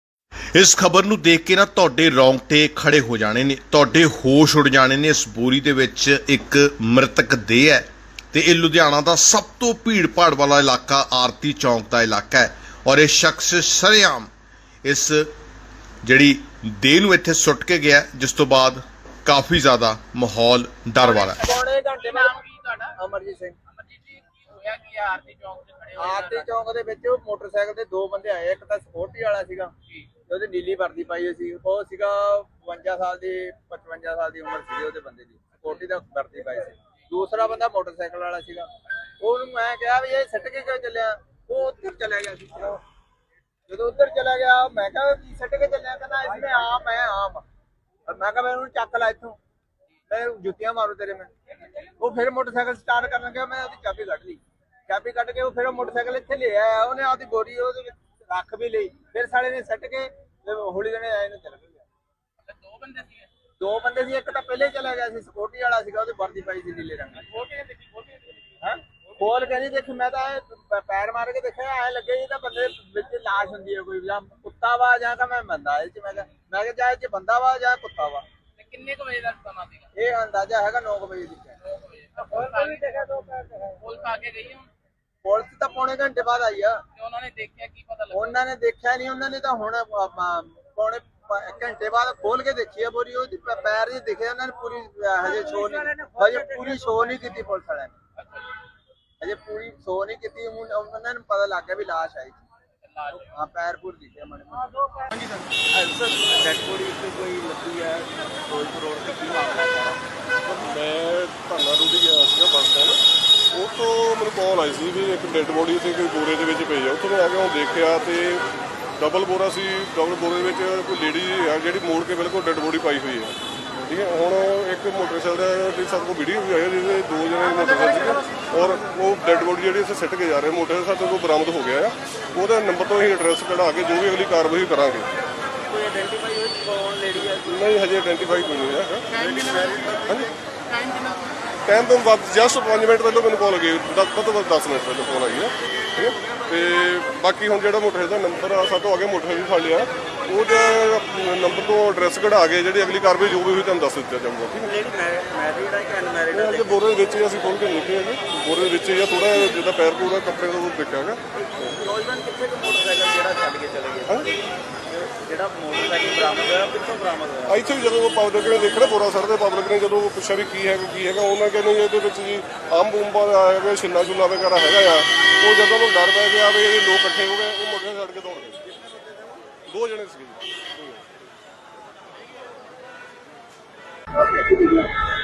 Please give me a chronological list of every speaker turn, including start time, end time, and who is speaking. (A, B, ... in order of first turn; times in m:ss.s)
0:00.5-0:14.3 A
0:14.8-0:15.3 A
0:16.0-0:21.4 A
0:21.1-0:21.5 B
0:21.3-0:22.4 C
0:22.0-0:22.9 B
0:22.9-0:23.6 C
0:23.7-0:26.5 B
0:26.0-0:29.7 C
0:30.3-0:42.8 C
0:43.7-0:47.4 C
0:48.1-0:49.4 C
0:50.1-0:51.3 C
0:52.0-1:01.8 C
1:02.4-1:03.3 B
1:03.6-1:07.3 C
1:07.2-1:08.5 B
1:08.6-1:18.2 C
1:18.6-1:19.9 B
1:19.9-1:21.6 C
1:21.6-1:24.7 B
1:25.2-1:26.8 C
1:27.0-1:28.3 B
1:28.1-1:37.9 C
1:38.2-1:38.4 B
1:39.2-1:42.4 C
1:42.9-1:43.2 B
1:43.1-1:44.7 C
1:45.7-1:50.0 D
1:50.5-1:53.0 E
1:53.5-1:58.4 E
1:59.0-2:15.1 E
2:15.6-2:17.7 D
2:17.4-2:19.3 E
2:19.1-2:20.3 D
2:21.6-2:34.7 E
2:34.6-2:37.1 D
2:36.3-2:41.7 E
2:41.4-2:44.2 D
2:44.9-2:47.6 D
2:47.5-2:58.6 E
2:59.7-3:01.0 E
3:04.2-3:04.9 C